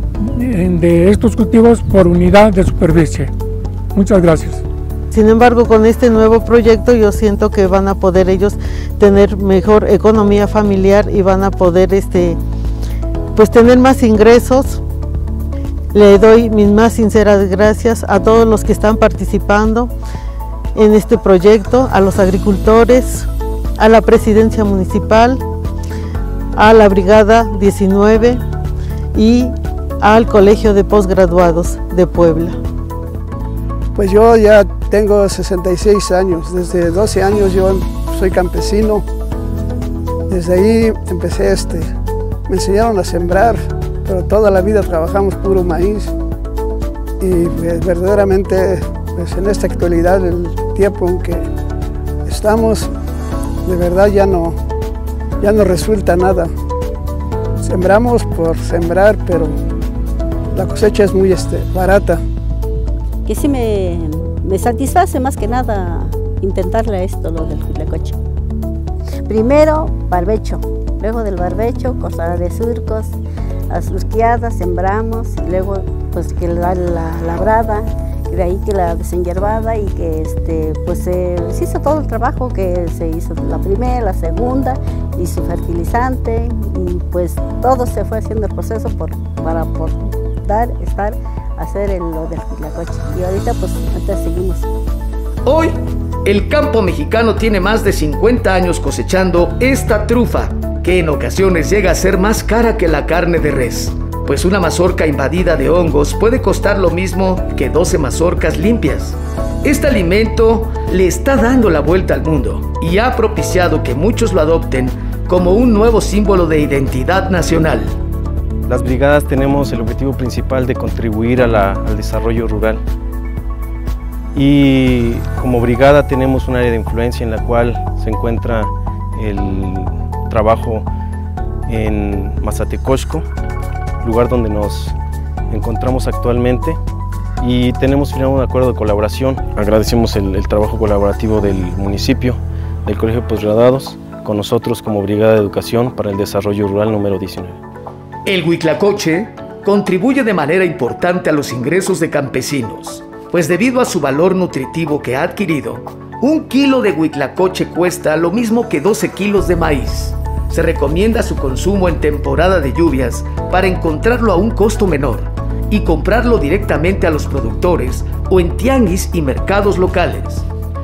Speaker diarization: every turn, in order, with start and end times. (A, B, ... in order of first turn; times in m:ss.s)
0:00.2-0:03.3 A
0:03.9-0:04.6 A
0:05.1-0:12.4 B
0:13.4-0:14.8 B
0:15.9-0:19.9 B
0:20.8-0:25.4 B
0:26.6-0:28.4 B
0:29.1-0:32.6 B
0:34.0-0:39.0 C
0:40.3-0:41.9 C
0:42.5-0:46.1 C
0:47.2-0:51.4 C
0:52.3-0:52.9 C
0:53.6-0:54.6 C
0:55.4-0:56.5 C
0:57.6-0:59.5 C
1:00.5-1:02.2 C
1:03.3-1:08.2 D
1:09.3-1:13.2 D
1:13.7-1:34.7 D
1:35.4-1:57.9 E
1:58.7-2:02.8 F
2:04.3-2:10.9 F
2:11.7-2:13.3 F
2:14.0-2:15.0 F
2:15.5-2:16.8 F
2:17.4-2:27.6 F
2:28.3-2:50.5 E